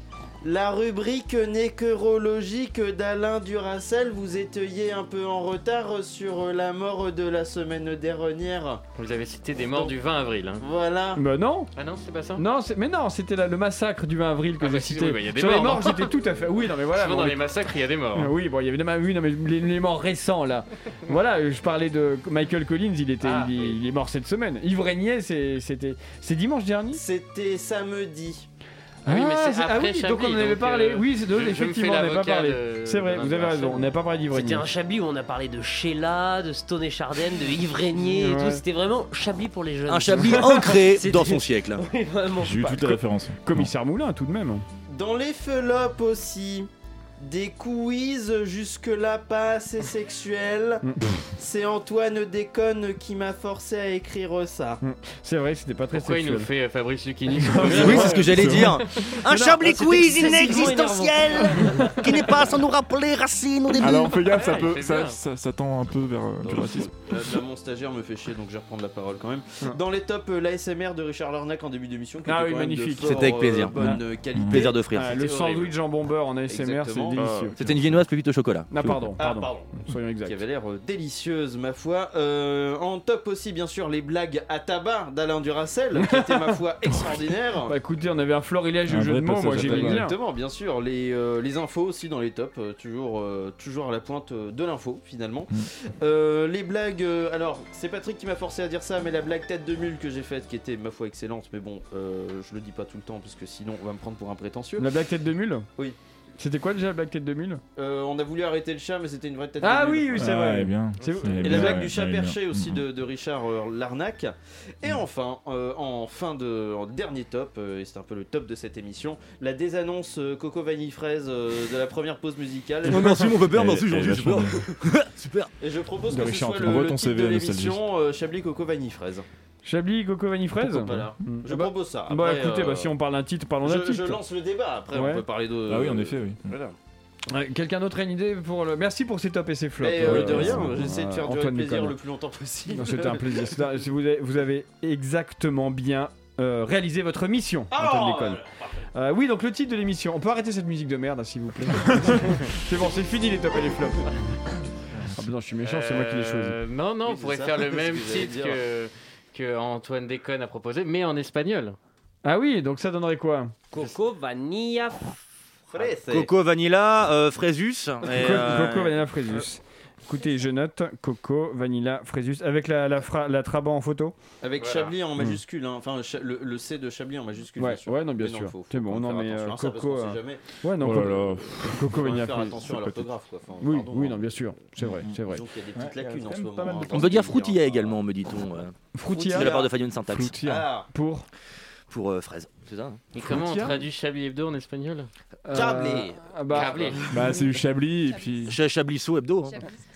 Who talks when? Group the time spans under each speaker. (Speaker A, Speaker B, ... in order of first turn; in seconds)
Speaker A: 0.4-8.8, 9.7-9.9, 10.6-11.2, 26.9-28.5, 44.9-46.7, 47.2-50.8, 51.4-54.8, 66.4-74.8, 76.5-77.3, 79.2-87.8, 89.5-104.9, 107.8-110.4, 111.4-123.4, 125.6-129.2, 130.6-132.9, 133.6-136.8, 139.8-143.6, 147.7-148.4, 157.1-158.6, 165.7-166.3, 174.4-180.4, 181.9-184.3, 185.2-188.0, 189.2-189.8, 190.3-190.9, 195.5-197.1
Speaker B: 9.0-10.6, 11.8-12.4, 14.6-16.1, 16.9-18.3, 23.2-23.8, 29.1-33.9, 55.9-58.2, 64.3-65.2, 75.1-75.7, 155.6-161.8, 174.6-174.9, 193.1-195.1, 196.5-197.1
Speaker C: 11.2-11.7, 12.3-17.4, 18.1-27.0, 29.1-34.7, 37.9-38.6, 42.6-44.6, 54.8-56.5, 59.3-59.5, 72.2-74.0, 74.9-77.5, 78.7-80.4, 87.7-90.1, 104.8-105.7, 106.4-107.6, 109.6-111.9, 126.1-126.9, 129.6-134.2, 134.9-135.2, 137.3-141.9, 142.7-148.4, 148.9-154.2, 155.1-156.6, 162.2-163.6, 168.1-174.1, 177.6-182.8, 183.6-185.4, 188.9-189.5, 190.1-191.2, 193.2-193.8, 195.4-197.0
Speaker D: 34.3-42.8, 59.5-62.4, 163.7-165.1
Speaker E: 39.9-41.8, 57.6-64.3, 73.0-75.2, 77.5-79.0, 122.9-125.5, 166.0-169.0, 186.9-190.3, 191.9-193.0, 198.4-199.7
Speaker F: 42.4-43.7, 57.4-58.8, 63.8-66.9, 73.8-74.6, 77.1-78.0, 88.9-90.0, 110.2-112.8, 122.9-124.7, 126.6-127.8, 135.7-136.5, 140.0-140.8, 180.8-181.9, 182.6-183.0, 184.8-185.2, 185.7-187.1, 197.1-198.6